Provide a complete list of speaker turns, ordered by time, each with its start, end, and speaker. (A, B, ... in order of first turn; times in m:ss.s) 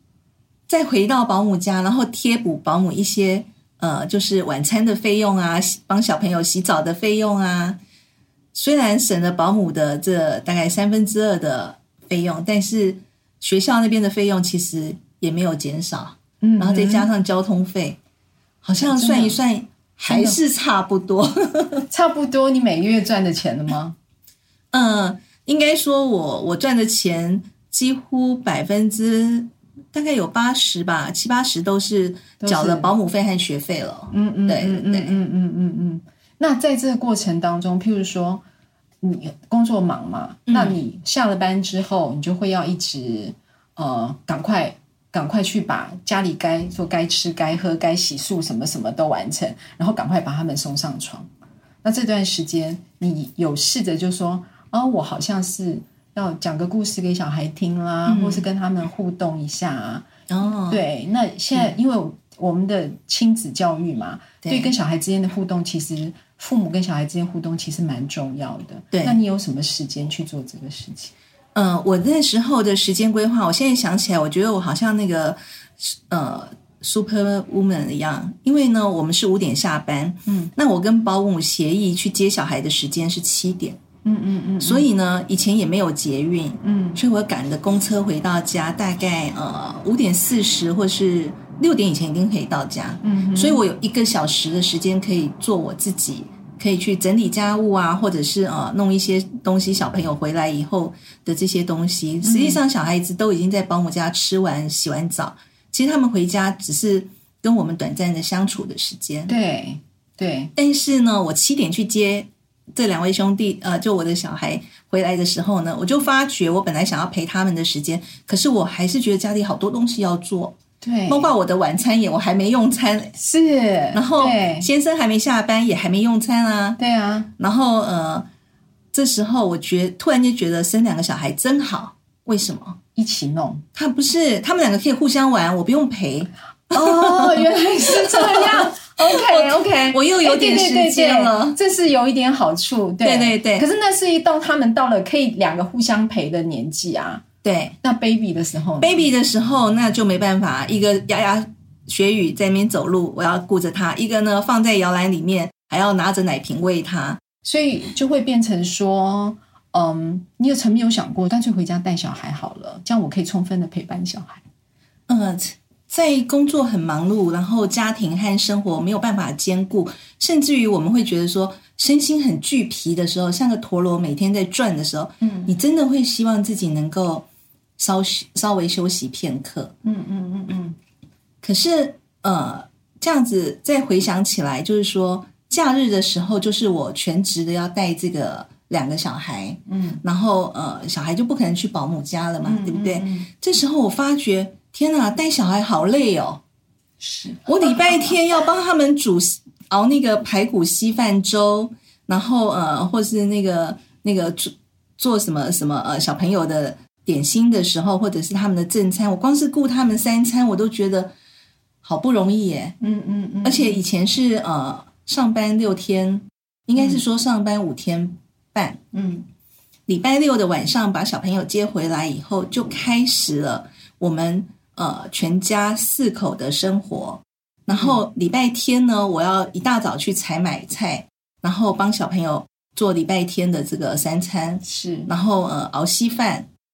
0:00.7-0:07.8 A
0:08.5-0:18.0 A
0:16.4-0:17.1 B
0:18.6-0:21.8 A
0:18.8-0:19.4 B
0:20.1-0:20.4 B
0:21.9-0:24.0 B
0:24.7-0:35.2 A
0:32.4-0:32.9 B
0:34.1-0:38.4 B
0:39.0-0:51.3 B
0:40.5-0:40.8 A
0:51.8-1:00.0 B
0:58.0-0:58.4 A
1:00.3-1:00.8 A
1:00.7-1:11.1 B
1:04.4-1:04.7 A
1:08.9-1:09.2 A
1:11.5-1:23.8 A
1:20.3-1:20.5 B
1:24.0-1:24.9 B
1:24.6-1:49.3 A
1:26.6-1:27.0 B
1:33.0-1:33.6 B
1:42.2-1:42.6 B
1:49.3-1:50.5 B
1:50.6-2:00.6 A
2:00.8-2:01.3 B
2:01.1-2:03.1 A
2:03.2-2:04.7 B
2:03.9-2:06.8 A
2:06.8-2:07.3 B
2:07.4-2:08.2 A
2:08.9-2:12.8 A
2:13.0-2:13.6 B
2:13.7-2:21.6 A
2:16.7-2:27.2 B
2:23.0-2:23.7 A
2:27.4-2:27.7 A
2:27.8-2:29.1 B
2:28.8-2:37.2 A
2:37.4-2:44.4 B
2:45.1-2:57.2 A
2:55.2-2:55.5 B
2:57.8-2:59.7 A
2:59.8-3:00.8 B
3:01.4-3:16.4 A
3:09.7-3:10.0 B
3:12.4-3:13.3 B
3:17.0-3:18.1 B
3:17.5-3:31.1 A
3:31.8-3:32.8 A
3:32.8-3:33.8 B
3:33.4-3:38.8 A
3:38.9-3:39.2 B
3:39.9-3:56.5 A
3:47.7-3:48.0 B
3:54.6-3:55.1 B